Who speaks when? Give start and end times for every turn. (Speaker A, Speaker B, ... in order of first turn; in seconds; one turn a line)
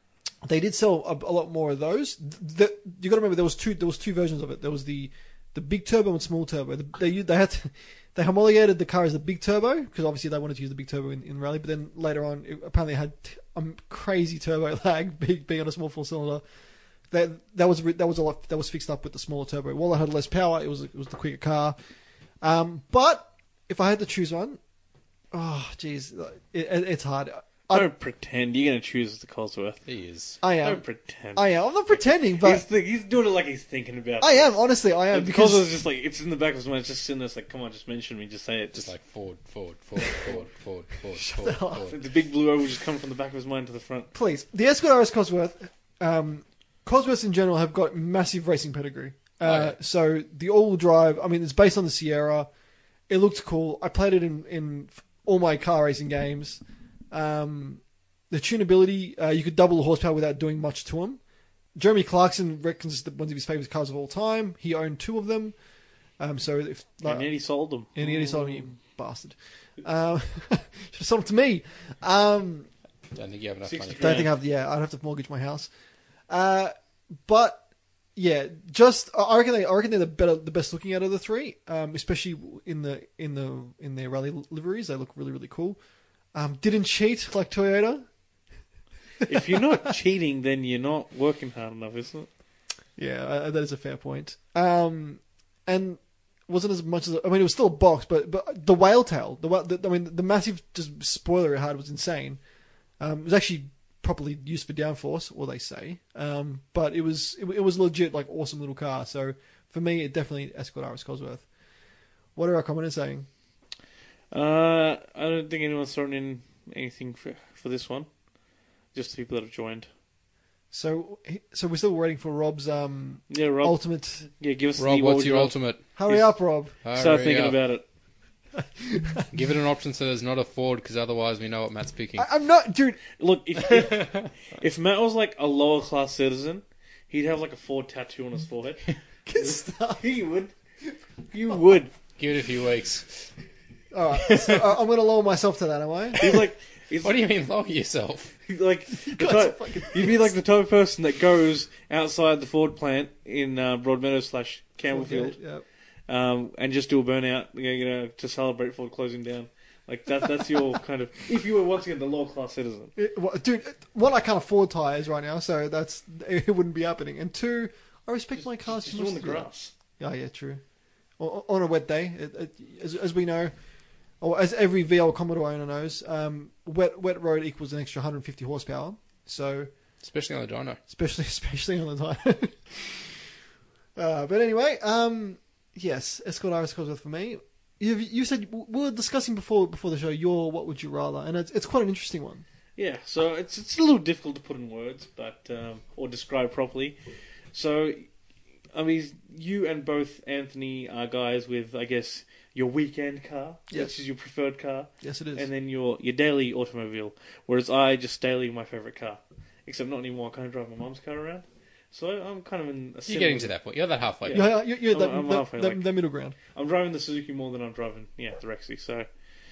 Speaker A: 0.4-16.4
Speaker A: 17.1-21.8
Speaker A: 22.4-24.6
Speaker A: 25.3-27.9
Speaker B: 27.7-29.8
Speaker C: 29.9-30.4
Speaker A: 30.4-30.8
Speaker B: 30.6-38.9
Speaker A: 31.4-32.6
Speaker A: 34.2-35.7
Speaker C: 38.7-42.0
Speaker A: 41.1-41.9
Speaker B: 41.9-44.1
Speaker A: 44.1-52.5
Speaker C: 49.4-49.8
Speaker A: 53.1-61.2
Speaker A: 61.8-65.6
Speaker A: 66.2-67.3
Speaker B: 67.0-68.8
Speaker A: 67.9-72.7
Speaker C: 73.1-74.3
Speaker B: 73.6-74.3
Speaker A: 74.0-75.7
Speaker A: 76.3-77.6
Speaker A: 78.2-85.8
Speaker A: 86.3-88.1
Speaker A: 89.2-89.5
Speaker B: 89.2-92.3
Speaker A: 93.0-102.4
Speaker A: 103.0-111.5
Speaker A: 112.3-113.3
Speaker B: 114.3-118.1
Speaker B: 118.9-119.9
Speaker A: 120.7-124.2
Speaker B: 123.3-125.5
Speaker C: 124.8-125.9
Speaker A: 126.0-126.7
Speaker C: 126.8-127.6
Speaker B: 126.9-127.8
Speaker A: 128.5-129.3
Speaker C: 129.3-132.3
Speaker A: 132.2-133.0
Speaker B: 133.2-138.8
Speaker C: 133.7-134.3
Speaker A: 139.2-140.1
Speaker B: 139.3-140.5
Speaker B: 141.3-141.9
Speaker C: 142.2-143.3
Speaker A: 143.9-146.2
Speaker C: 144.1-144.7
Speaker B: 146.2-147.2
Speaker C: 147.0-148.3
Speaker B: 148.4-155.4
Speaker A: 148.9-150.3
Speaker A: 154.9-155.6
Speaker B: 156.1-162.9
Speaker A: 162.9-170.6
Speaker B: 168.4-169.7
Speaker A: 171.2-173.5
Speaker A: 174.2-179.7
Speaker C: 180.0-180.8
Speaker A: 180.9-183.2
Speaker A: 183.9-192.4
Speaker B: 192.8-197.0
Speaker B: 197.5-198.1
Speaker B: 198.7-213.5
Speaker A: 203.7-204.0
Speaker A: 205.0-205.5
Speaker C: 213.1-214.5
Speaker B: 214.2-215.9
Speaker A: 214.3-216.3
Speaker B: 216.5-219.1